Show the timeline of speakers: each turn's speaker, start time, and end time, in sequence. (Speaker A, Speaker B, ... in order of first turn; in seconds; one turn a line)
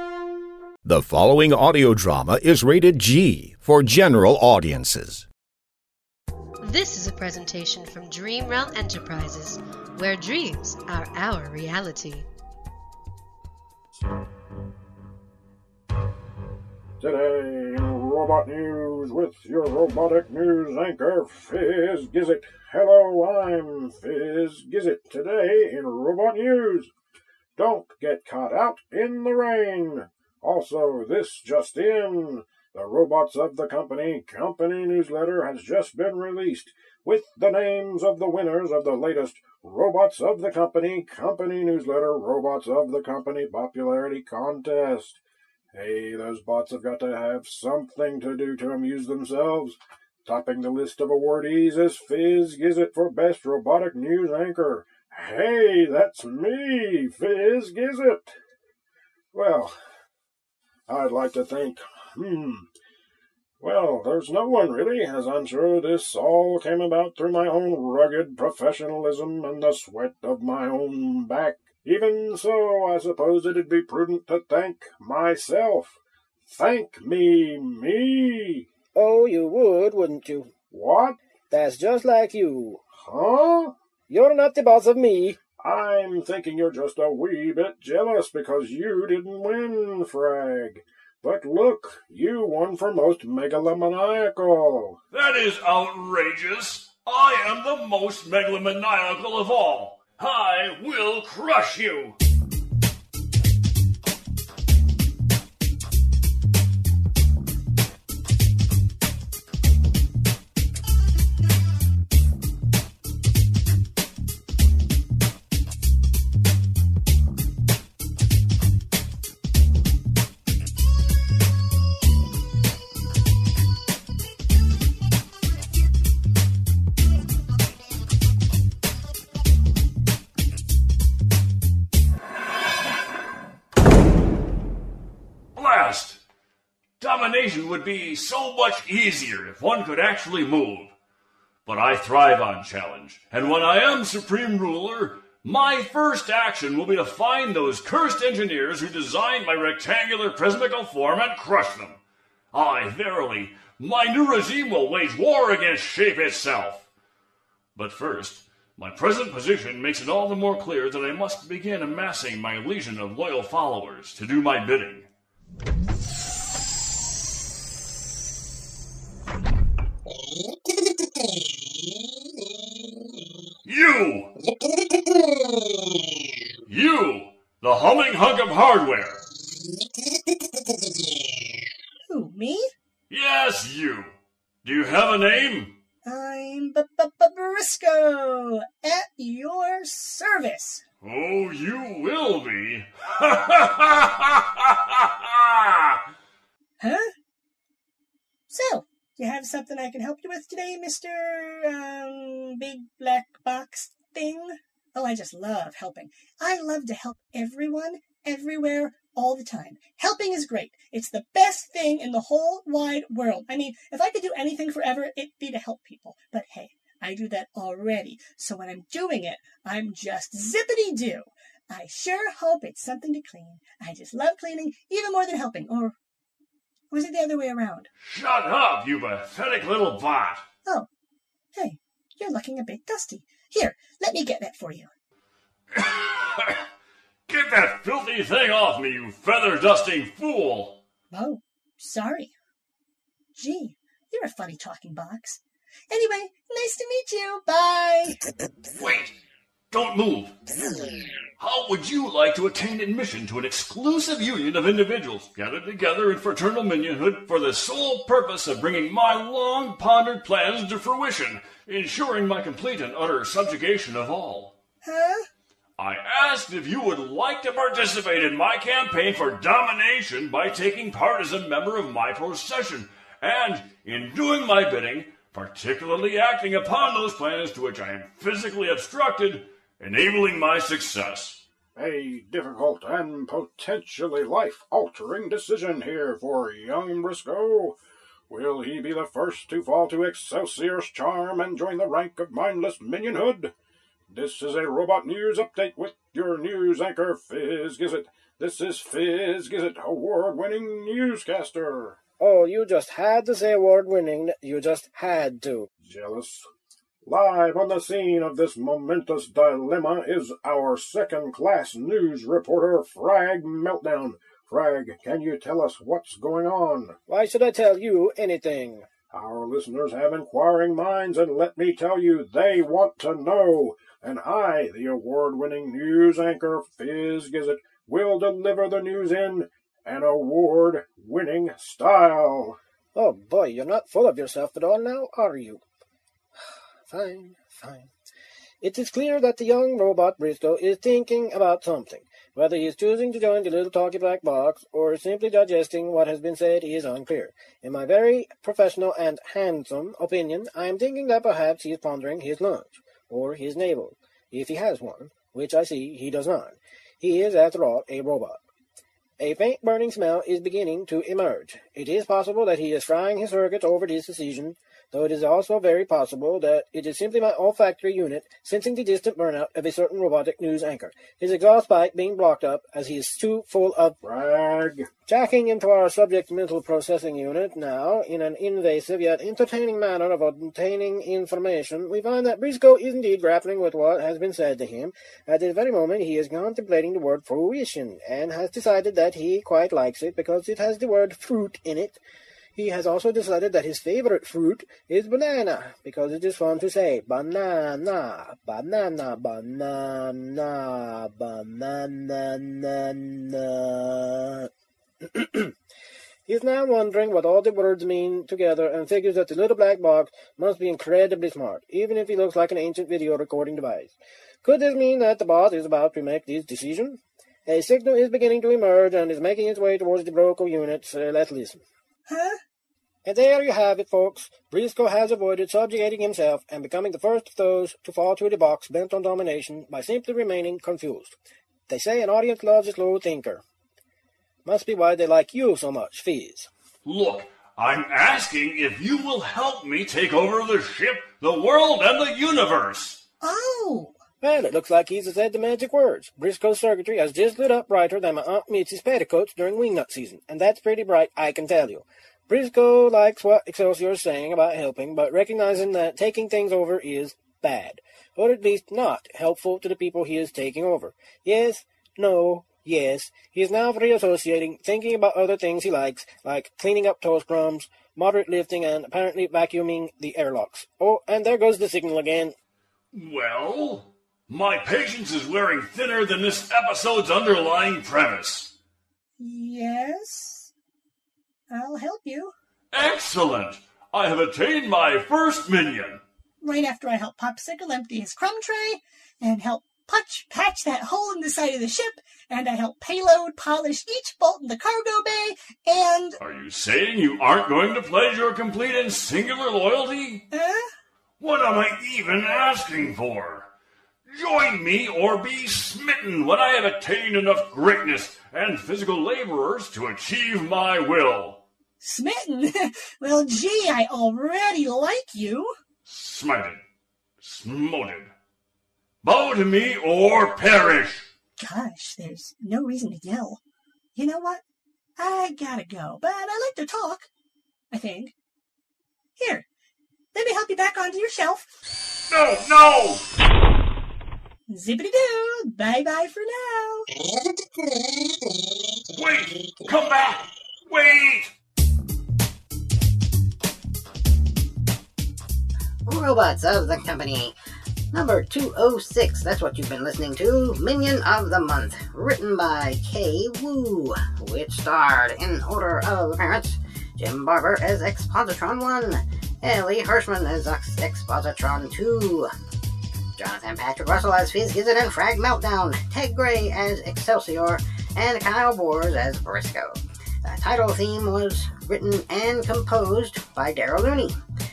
Speaker A: 0.8-5.3
Speaker B: 6.6-12.3
Speaker C: 17.0-26.9
Speaker C: 27.6-45.2
Speaker C: 45.7-58.4
Speaker C: 59.3-59.8
Speaker C: 60.9-62.7
Speaker C: 63.6-78.7
Speaker D: 78.9-80.5
Speaker C: 80.7-81.2
Speaker D: 81.5-82.8
Speaker C: 82.9-83.7
Speaker D: 84.1-85.4
Speaker C: 85.6-95.0
Speaker E: 95.1-102.2
Speaker E: 135.6-136.2
Speaker E: 137.0-140.9
Speaker E: 141.7-152.0
Speaker E: 152.5-156.9
Speaker E: 157.7-165.1
Speaker E: 173.6-174.3
Speaker E: 176.7-179.2
Speaker F: 182.1-182.7
Speaker E: 183.1-185.7
Speaker F: 186.0-190.8
Speaker E: 191.0-196.0
Speaker F: 196.8-197.1
Speaker F: 198.5-225.9
Speaker F: 226.9-227.9
Speaker E: 228.0-230.4
Speaker F: 231.5-234.9
Speaker E: 235.7-236.6
Speaker E: 237.3-240.8
Speaker F: 241.1-242.3
Speaker F: 243.3-248.2
Speaker E: 248.8-249.2
Speaker E: 249.7-250.3
Speaker E: 251.4-264.5
Speaker F: 264.8-265.2
Speaker E: 265.8-281.4
Speaker C: 281.7-287.8
Speaker C: 288.3-293.5
Speaker C: 294.1-302.0
Speaker D: 302.2-305.7
Speaker C: 305.8-306.5
Speaker C: 307.0-317.0
Speaker D: 317.1-318.9
Speaker C: 319.1-332.6
Speaker D: 332.9-335.6
Speaker D: 336.9-337.9
Speaker D: 338.6-358.4
Speaker D: 359.2-374.0
Speaker C: 374.0-374.9
Speaker D: 375.1-392.0
Speaker D: 392.6-404.5
Speaker D: 405.0-405.5
Speaker D: 406.2-421.6
Speaker F: 422.1-422.4
Speaker D: 423.0-431.2
Speaker D: 431.7-433.4
Speaker D: 434.4-436.5
Speaker E: 436.8-443.0
Speaker F: 443.2-444.0
Speaker D: 444.2-472.3
Speaker E: 472.9-478.5
Speaker F: 479.2-480.5
Speaker F: 481.5-482.3
Speaker E: 482.7-486.0
Speaker F: 486.4-496.2
Speaker E: 496.2-500.2
Speaker F: 500.3-500.6
Speaker E: 501.2-503.5
Speaker E: 504.1-511.4
Speaker F: 511.8-515.5
Speaker E: 515.9-516.6
Speaker E: 517.2-518.1
Speaker E: 519.0-521.1
Speaker F: 521.4-523.4
Speaker F: 523.9-524.4
Speaker F: 525.0-527.1
Speaker F: 527.7-528.1
Speaker F: 529.2-529.5
Speaker F: 530.1-531.5
Speaker E: 532.1-533.0
Speaker F: 534.5-536.8
Speaker E: 538.9-541.3
Speaker G: 545.9-547.3
Speaker G: 547.9-562.3
Speaker G: 563.2-574.2